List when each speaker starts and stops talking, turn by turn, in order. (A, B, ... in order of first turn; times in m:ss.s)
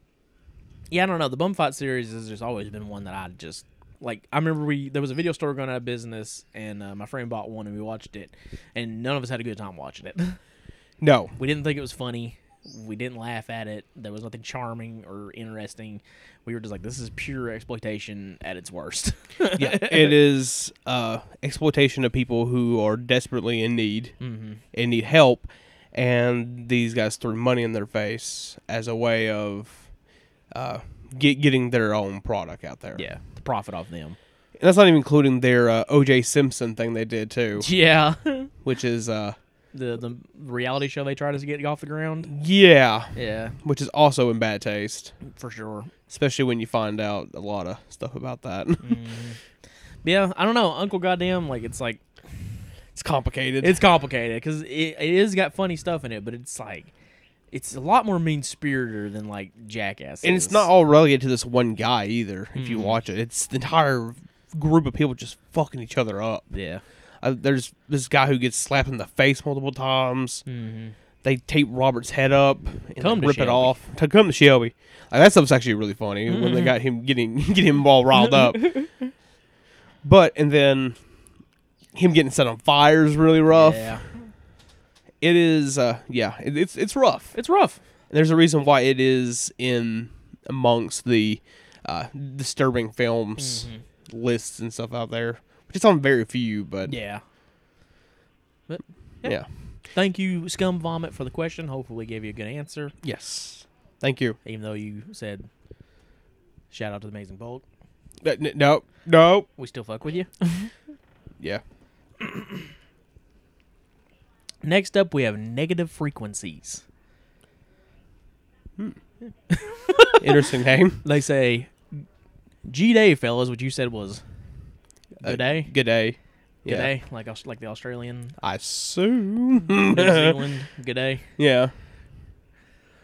0:00.9-0:10.4 A
0:11.0-0:11.4 B
0:11.4-0:20.2 A
0:19.5-0:24.2 B
0:24.2-0:24.6 A
0:24.7-0:29.9 B
0:30.5-0:33.0 B
0:33.0-0:34.2 A
0:34.6-0:37.7 B
0:37.6-0:38.5 A
0:38.6-0:39.4 B
0:39.7-0:42.3 A
0:42.3-0:45.2 B
0:43.2-0:43.6 A
0:45.2-0:45.9 A
0:46.1-0:49.0 B
0:48.8-0:49.4 A
0:50.0-0:52.0 A
0:52.9-0:53.8 B
0:53.6-0:56.9 A
0:57.5-1:00.7 A
1:00.2-1:06.5 B
1:02.6-1:03.0 A
1:06.5-1:06.8 A
1:07.2-1:10.4 B
1:10.5-1:11.0 A
1:11.2-1:18.8 B
1:13.0-1:13.8 A
1:16.3-1:16.8 A
1:18.3-1:19.1 A
1:20.0-1:21.0 B
1:22.0-1:24.0 B
1:23.5-1:24.1 A
1:25.2-1:27.4 B
1:27.4-1:27.8 A
1:28.1-1:37.0 B
1:33.4-1:33.8 A
1:36.9-1:37.2 A
1:38.7-1:42.9 A
1:43.0-1:44.4 B
1:44.4-1:45.5 A
1:46.7-1:47.6 A
1:48.2-1:49.5 B
1:49.6-1:50.7 A
1:54.6-1:56.8 A
1:59.5-2:00.2 A
2:00.2-2:01.0 B
2:01.0-2:02.0 A
2:02.7-2:04.2 A
2:05.2-2:06.9 B
2:05.2-2:05.7 A
2:06.7-2:08.3 A
2:08.4-2:10.4 B
2:09.9-2:11.2 A
2:11.4-2:11.7 B